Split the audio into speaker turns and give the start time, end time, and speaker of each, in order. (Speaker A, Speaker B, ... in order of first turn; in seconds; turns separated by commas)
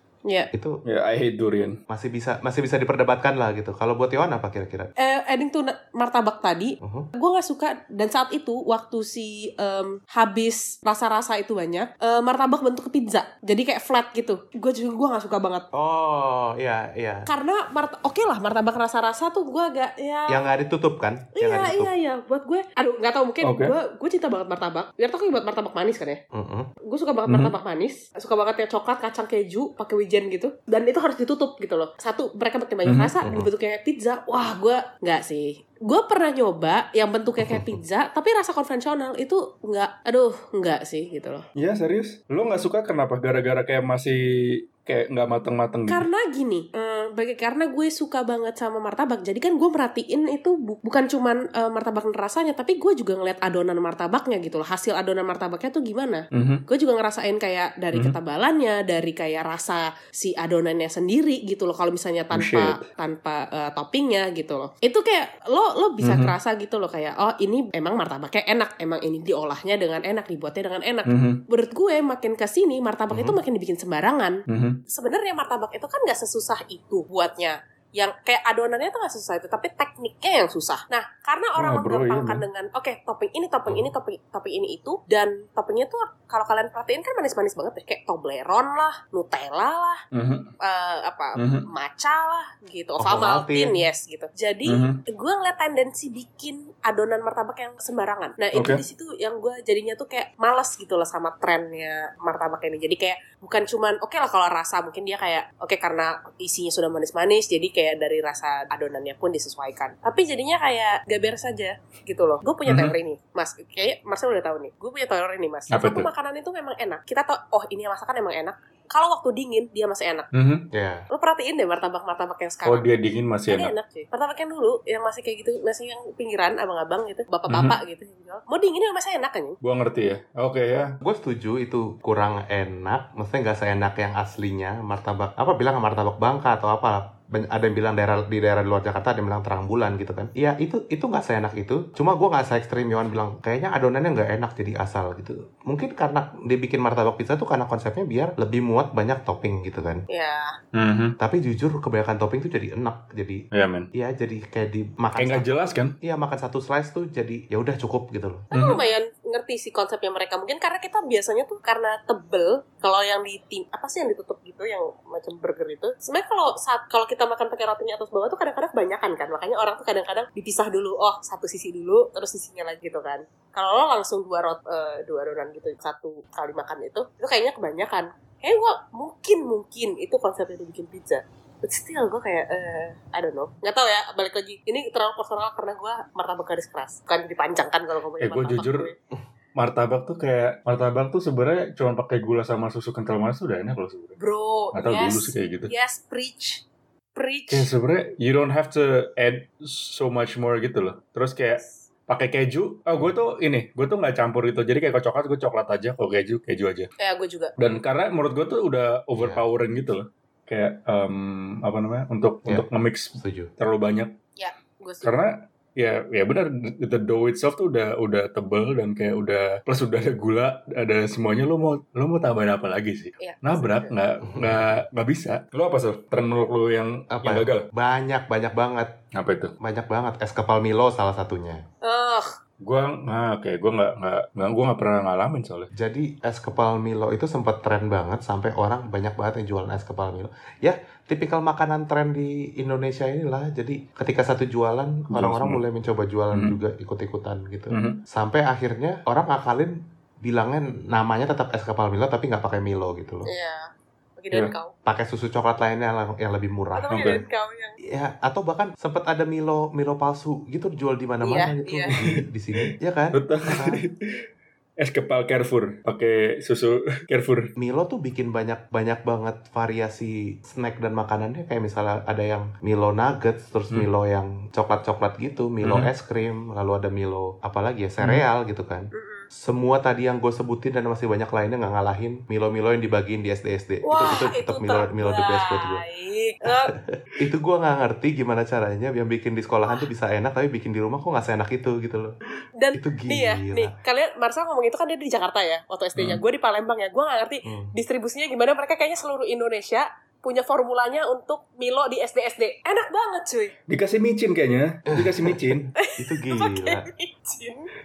Speaker A: 0.5-0.8, Speaker B: 0.8-1.8, Speaker A: 1.9-4.9, Speaker C: 5.0-15.7, Speaker A: 6.8-7.1, Speaker A: 15.7-17.3, Speaker C: 17.3-20.4, Speaker A: 20.3-21.9, Speaker C: 21.4-26.2, Speaker B: 23.4-23.7, Speaker A: 26.3-26.7, Speaker C: 26.8-41.4, Speaker B: 27.3-27.5, Speaker B: 32.9-33.1, Speaker A: 33.2-33.5, Speaker A: 37.4-37.8, Speaker B: 41.5-46.1, Speaker C: 45.9-90.0, Speaker B: 56.3-56.6, Speaker B: 62.3-62.8, Speaker B: 66.0-66.3, Speaker B: 71.0-71.4, Speaker A: 73.1-73.4, Speaker B: 74.5-74.8, Speaker B: 81.6-82.4, Speaker B: 90.1-90.5, Speaker C: 90.6-120.3, Speaker B: 91.4-91.7, Speaker A: 93.0-93.8, Speaker B: 94.6-95.0, Speaker B: 98.5-98.8, Speaker B: 112.7-112.9, Speaker B: 115.7-116.1, Speaker B: 120.3-120.7, Speaker A: 120.7-121.0, Speaker C: 121.1-122.9, Speaker B: 122.6-123.7, Speaker C: 123.5-129.6, Speaker B: 127.5-127.8, Speaker B: 129.6-130.9, Speaker A: 131.0-150.0, Speaker C: 150.1-150.5, Speaker B: 150.7-151.2, Speaker A: 151.2-153.4, Speaker B: 153.5-153.9, Speaker A: 153.9-158.5, Speaker B: 155.2-155.9, Speaker C: 158.5-188.9, Speaker B: 158.5-158.8, Speaker B: 188.2-188.9, Speaker B: 189.6-194.2, Speaker C: 194.2-196.6, Speaker B: 194.7-195.7, Speaker C: 197.2-197.7, Speaker B: 197.5-206.9, Speaker C: 207.0-207.5, Speaker B: 207.6-214.2, Speaker A: 209.1-209.4, Speaker A: 212.5-213.5, Speaker C: 214.4-215.1, Speaker B: 215.0-227.7, Speaker C: 223.2-223.9, Speaker A: 224.2-224.6, Speaker A: 227.1-228.9, Speaker B: 229.1-229.5, Speaker A: 229.6-231.6, Speaker C: 231.8-232.3, Speaker B: 232.6-235.7, Speaker A: 235.7-253.3, Speaker B: 245.1-245.6, Speaker B: 247.7-248.0, Speaker C: 253.3-253.7, Speaker C: 254.2-254.7, Speaker A: 254.8-257.1, Speaker C: 256.7-257.8, Speaker B: 256.9-257.2, Speaker A: 257.9-263.8, Speaker C: 261.2-261.9, Speaker B: 261.9-262.2, Speaker B: 263.1-264.0, Speaker B: 264.8-267.5, Speaker A: 267.6-285.8, Speaker B: 275.6-275.9, Speaker C: 278.9-279.3, Speaker C: 283.9-286.7, Speaker A: 286.8-292.1, Speaker C: 292.6-303.5, Speaker A: 292.7-293.7, Speaker B: 295.9-296.2, Speaker A: 297.4-297.7, Speaker B: 303.7-305.7, Speaker A: 304.9-305.3, Speaker C: 305.8-307.7, Speaker A: 306.0-306.9